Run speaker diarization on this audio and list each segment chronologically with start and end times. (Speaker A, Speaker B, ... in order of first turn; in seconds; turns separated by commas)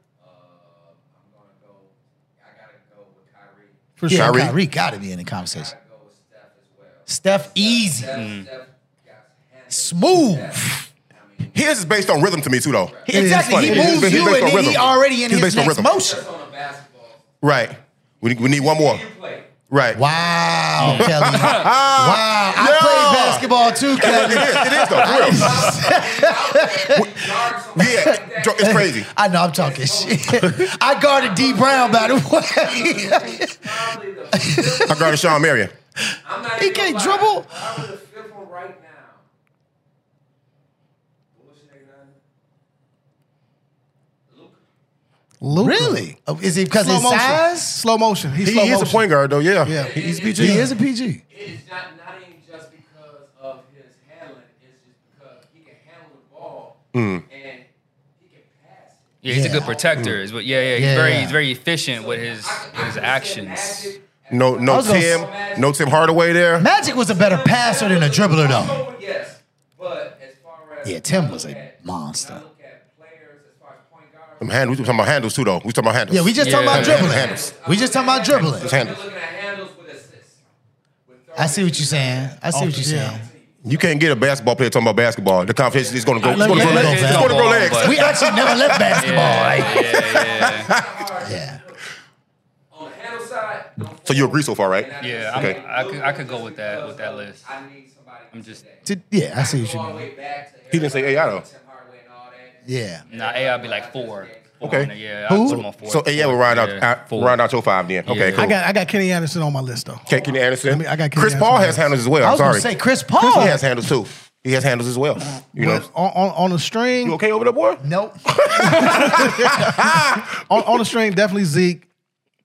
Speaker A: 0.2-3.9, Speaker B: 4.0-4.4, Speaker C: 4.1-5.7, Speaker D: 4.1-4.5, Speaker A: 5.4-12.3, Speaker C: 7.1-8.1, Speaker E: 8.1-8.4, Speaker C: 9.7-10.8, Speaker D: 11.5-15.9, Speaker A: 12.8-13.3, Speaker C: 13.1-16.2, Speaker B: 13.1-14.0, Speaker A: 14.1-14.8, Speaker A: 15.8-17.2, Speaker D: 17.4-19.0, Speaker A: 18.2-19.5, Speaker D: 19.7-20.0, Speaker C: 19.9-27.1, Speaker E: 20.8-21.7, Speaker D: 20.8-25.9, Speaker A: 23.3-24.1, Speaker A: 24.9-28.9, Speaker D: 27.8-29.1, Speaker C: 28.6-35.4, Speaker A: 29.5-35.4, Speaker D: 34.9-35.7, Speaker A: 36.2-39.2, Speaker C: 36.5-37.6, Speaker A: 41.3-42.1, Speaker A: 44.3-44.6, Speaker B: 45.4-46.0, Speaker C: 45.5-47.8, Speaker B: 46.7-49.0, Speaker D: 48.4-50.7, Speaker B: 49.6-50.6, Speaker A: 49.7-50.6, Speaker C: 50.3-51.2, Speaker A: 51.3-61.3, Speaker D: 56.9-57.2, Speaker E: 59.2-63.9, Speaker C: 59.3-59.8, Speaker C: 60.7-61.4, Speaker A: 61.8-75.0, Speaker D: 64.3-66.7, Speaker C: 64.7-65.3, Speaker C: 66.6-68.8, Speaker C: 70.8-72.4, Speaker D: 74.4-77.5, Speaker C: 76.1-78.7, Speaker E: 76.4-77.2, Speaker A: 76.8-80.4, Speaker D: 78.5-79.0, Speaker A: 81.0-83.9, Speaker C: 81.3-83.2, Speaker B: 82.5-83.2, Speaker D: 83.6-89.0, Speaker A: 85.8-86.4, Speaker C: 86.2-89.8, Speaker E: 86.2-88.0, Speaker B: 86.4-87.0, Speaker E: 88.9-90.7, Speaker A: 89.0-91.8, Speaker D: 90.3-90.9, Speaker C: 91.2-91.6, Speaker A: 92.7-104.9, Speaker D: 94.0-95.6, Speaker E: 95.0-97.4, Speaker E: 98.3-98.6, Speaker C: 98.8-100.1, Speaker D: 100.7-101.4, Speaker C: 102.6-103.0, Speaker E: 103.1-107.3, Speaker D: 104.6-104.9, Speaker C: 105.3-105.6, Speaker D: 105.5-108.5, Speaker E: 108.0-108.5, Speaker B: 108.3-110.1, Speaker D: 110.1-112.7, Speaker B: 110.6-111.9, Speaker C: 112.2-113.6, Speaker D: 113.2-115.8, Speaker B: 115.5-117.2, Speaker D: 117.0-120.6, Speaker C: 117.8-119.7, Speaker B: 118.7-120.0, Speaker B: 120.5-121.8